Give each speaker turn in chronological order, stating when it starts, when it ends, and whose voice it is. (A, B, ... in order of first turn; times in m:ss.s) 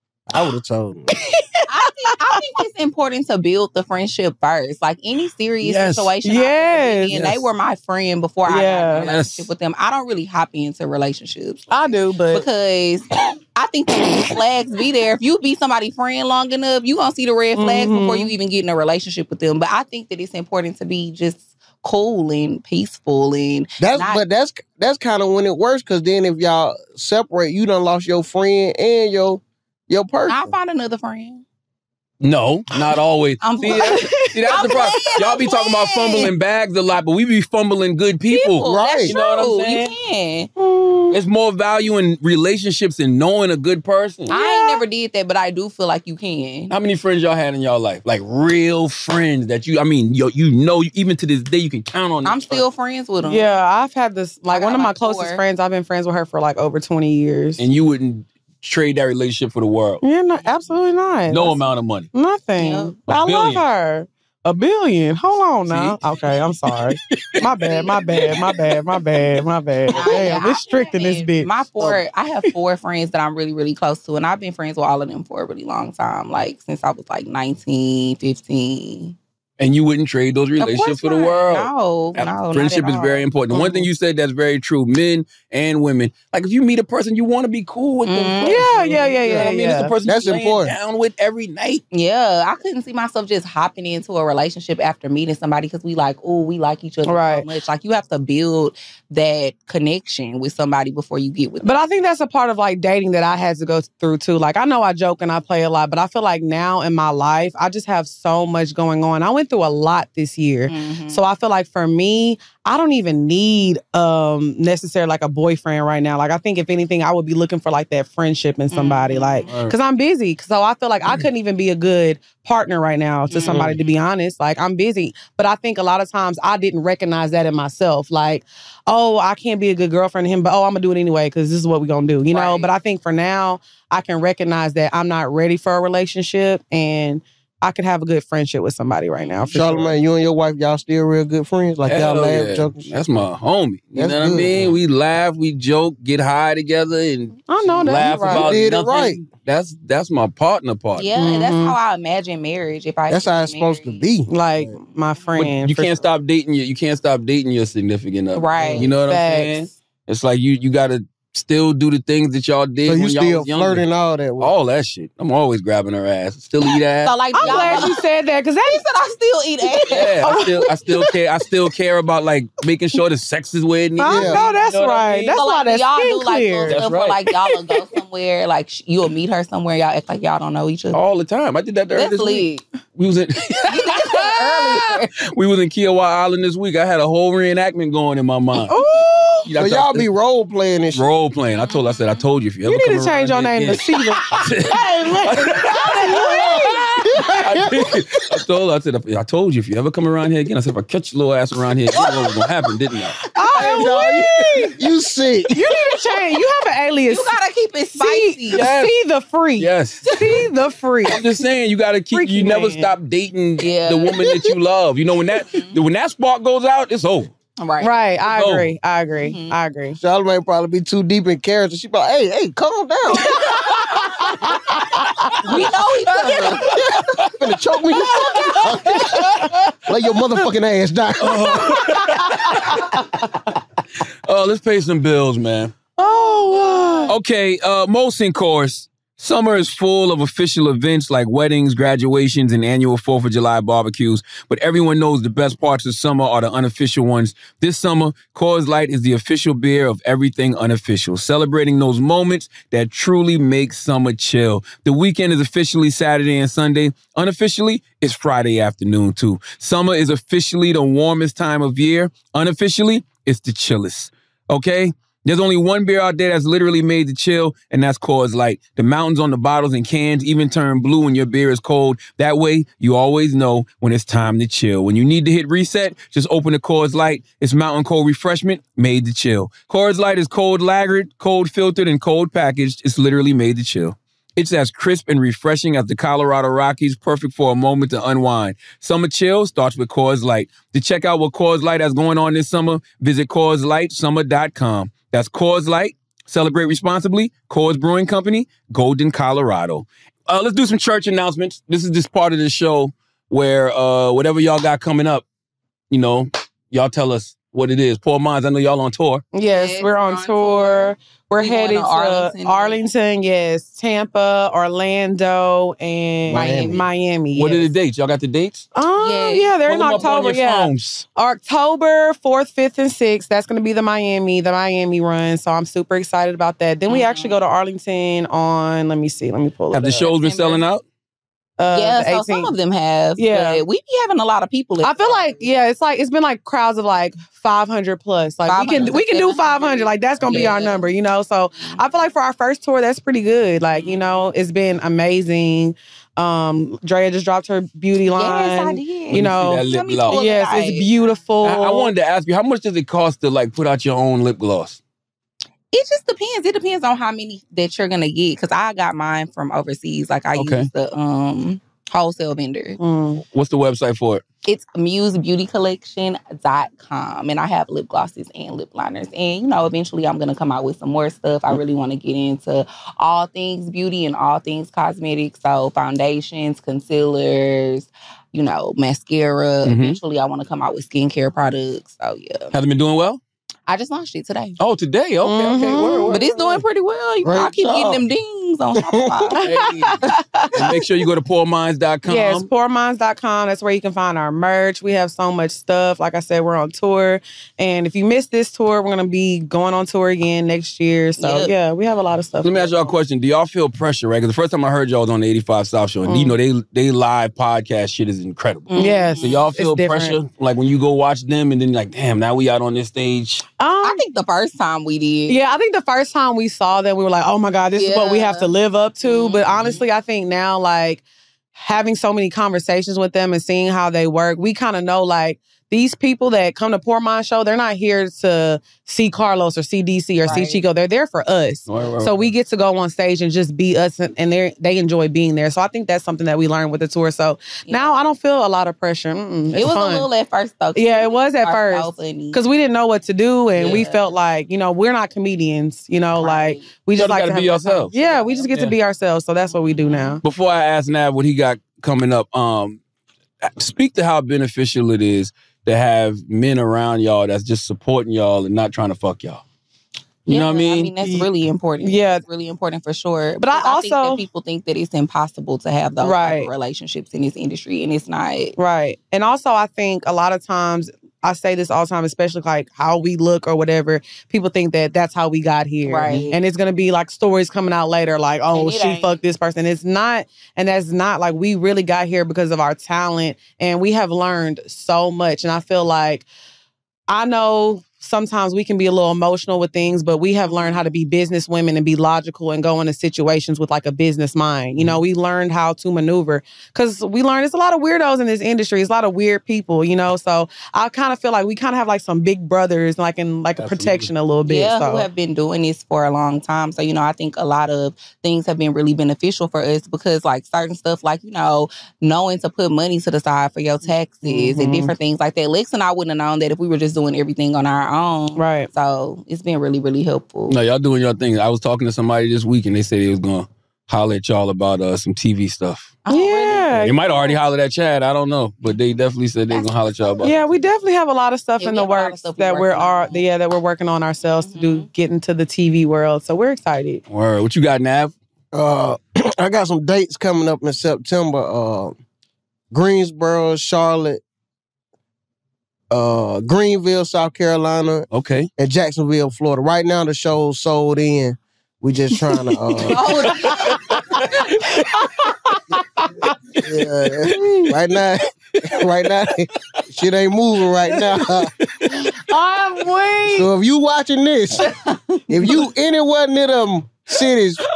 0:00.3-0:01.1 A
0:01.2-0:02.1 B
0:01.7-0:11.7 C
0:05.6-0:06.1 D
0:06.2-0:07.1 B
0:07.1-0:07.4 D
0:08.5-0:09.1 B
0:09.0-0:09.5 D
0:11.7-0:12.4 B
0:12.3-0:24.2 C
0:17.5-0:18.3 B
0:23.8-0:30.5 A
0:30.3-0:31.4 C
0:32.2-0:39.9 D
0:33.4-0:36.3 C
0:33.6-0:35.2 B
0:38.3-0:40.5 C
0:38.6-0:39.2 A
0:40.6-0:41.2 B
0:41.1-0:44.4 D
0:44.3-0:44.8 B
0:44.3-0:46.7 C
0:46.7-0:52.6 D
0:52.2-0:53.5 C
0:53.2-0:57.6 B
0:54.5-0:55.4 C
0:57.6-1:00.0 D
1:00.0-1:01.6 B
1:01.3-1:02.1 D
1:02.1-1:11.5 B
1:02.6-1:02.9 C
1:03.1-1:03.6 D
1:05.7-1:06.0 D
1:07.1-1:09.4 D
1:09.9-1:19.2 C
1:10.1-1:10.4 A
1:19.6-1:31.8 D
1:20.6-1:23.2 C
1:28.0-1:28.7 C
1:28.4-1:29.9 B
1:29.2-1:29.5 A
1:30.0-1:30.7 A
1:31.9-1:41.8 C
1:37.0-1:37.4 B
1:41.6-2:19.9 B
1:50.7-1:51.2 C
1:58.7-1:59.6 C
1:59.5-1:59.7 D
2:03.3-2:03.7 C
2:03.5-2:03.8 A
2:12.3-2:12.7 C
2:19.2-2:19.5 C
2:19.5-2:23.2 A
2:21.8-2:31.1 D
2:23.9-2:24.7 A
2:27.5-2:28.5 B
2:28.3-2:29.2 A
2:31.0-2:34.0 C
2:31.2-2:31.8 B
2:33.1-2:34.8 A
2:34.3-2:36.0 B
2:35.4-2:43.8 D
2:38.3-2:38.9 C
2:38.6-2:38.8 A
2:39.0-2:39.7 B
2:42.8-2:44.5 A
2:44.4-2:47.9 D
2:47.0-2:48.0 C
2:47.3-2:48.8 B
2:48.6-2:50.4 C
2:49.9-2:55.3 D
2:50.2-2:51.0 B
2:54.0-2:56.8 B
2:54.0-2:54.4 A
2:55.3-3:01.0 C
2:56.7-2:57.3 D
3:00.9-3:08.7 D
3:02.0-3:02.6 C
3:03.6-3:05.1 C
3:08.7-3:09.5 B
3:09.5-3:10.1 D
3:09.6-3:11.0 A
3:10.9-3:23.2 D
3:12.6-3:14.5 B
3:15.7-3:16.9 B
3:16.1-3:16.4 A
3:17.2-3:17.9 A
3:23.3-3:24.7 B
3:23.6-3:25.5 A
3:23.8-3:24.7 D
3:25.5-3:27.4 B
3:27.1-3:28.6 C
3:28.0-3:31.2 B
3:28.5-3:28.9 D
3:29.6-3:30.0 D
3:30.0-3:30.4 C
3:31.1-3:37.3 D
3:32.1-3:32.9 B
3:33.6-3:34.4 C
3:35.5-3:35.8 C
3:37.6-3:37.9 C
3:37.8-3:40.0 B
3:38.2-3:38.7 D
3:39.2-3:39.5 C
3:40.0-3:43.5 A
3:44.2-3:45.5 A
3:45.4-3:46.9 C
3:45.5-3:47.5 D
3:46.6-3:49.2 A
3:48.0-3:48.7 C
3:48.4-3:49.5 B
3:49.1-3:49.5 D
3:49.8-3:52.0 A
3:51.2-3:52.8 D
3:51.8-3:53.0 B
3:54.2-3:55.7 D
3:56.0-3:57.1 B
3:57.1-5:05.2 D
5:05.9-5:09.2 D
5:09.3-5:17.7 B
5:09.4-5:12.8 C
5:16.3-5:16.8 A
5:16.3-5:16.8 C
5:17.3-5:18.7 D
5:18.7-5:29.9 B
5:19.0-5:20.1 C
5:19.7-5:21.0 D
5:26.9-5:27.4 C
5:29.7-5:30.8 D
5:29.8-5:30.6 C
5:31.6-5:32.5 B
5:31.7-5:35.4 C
5:33.2-5:33.6 B
5:34.8-5:51.9 B
5:38.4-5:40.9 C
5:43.7-5:44.0 C
5:48.2-5:50.9 C
5:49.1-5:50.2 D
5:51.4-5:54.8 D
5:55.7-6:02.8 C
6:00.3-6:00.7 D
6:02.8-6:03.2 B
6:03.3-6:04.2 D
6:04.4-6:22.5 C
6:19.6-6:20.0 D
6:22.5-6:23.2 D
6:23.7-6:24.6 C
6:24.6-6:26.6 D
6:25.2-6:26.1 B
6:26.1-6:29.5 C
6:27.2-6:28.0 A
6:28.8-6:29.3 A
6:29.4-6:30.4 B
6:29.4-6:32.5 D
6:30.1-6:30.7 C
6:32.0-6:42.9 B
6:41.2-6:41.5 C
6:42.4-6:53.4 D
6:46.1-6:46.3 B
6:48.7-6:49.4 C
6:48.8-6:50.2 B
6:53.6-6:54.0 B
6:53.8-6:55.4 C
6:55.3-7:01.0 B
6:57.7-6:58.5 C
6:59.0-6:59.8 C
7:01.6-7:20.1 B
7:10.2-7:10.6 C
7:11.7-7:12.3 D
7:17.6-7:18.0 C
7:19.5-7:22.4 C
7:20.8-7:30.2 B
7:23.5-7:24.1 C
7:26.2-7:26.7 C
7:26.9-7:27.9 D
7:27.9-7:28.5 C
7:29.7-7:30.2 C
7:30.2-7:32.8 D
7:33.4-7:39.4 D
7:40.2-7:40.9 D
7:40.3-7:48.5 C
7:41.0-7:41.3 B
7:41.8-7:42.2 B
7:43.4-7:44.2 B
7:46.0-7:46.5 B
7:48.6-8:06.3 B
7:55.8-7:56.4 C
7:58.5-7:59.1 C
8:07.1-8:25.1 B
8:23.6-8:24.1 D
8:24.4-8:40.6 C
8:34.2-8:34.9 B
8:38.4-8:38.7 B
8:40.5-8:45.9 D
8:46.0-8:47.4 C
8:46.1-8:47.0 B
8:46.8-8:50.4 D
8:49.5-8:50.3 C
8:50.2-8:57.0 B
8:51.6-8:53.2 C
8:54.4-8:54.9 C
8:57.1-8:58.1 D
8:58.5-9:01.9 A
9:02.7-9:04.2 A
9:05.9-9:08.1 A
9:08.1-9:08.5 D
9:08.6-9:13.5 A
9:12.7-9:13.7 D
9:12.8-9:14.0 C
9:14.2-9:15.1 D
9:15.0-9:16.3 B
9:16.6-9:21.5 A
9:17.2-9:17.7 D
9:18.5-9:18.9 D
9:20.9-9:22.1 D
9:21.9-9:23.5 B
9:23.3-9:24.7 A
9:25.3-9:27.6 A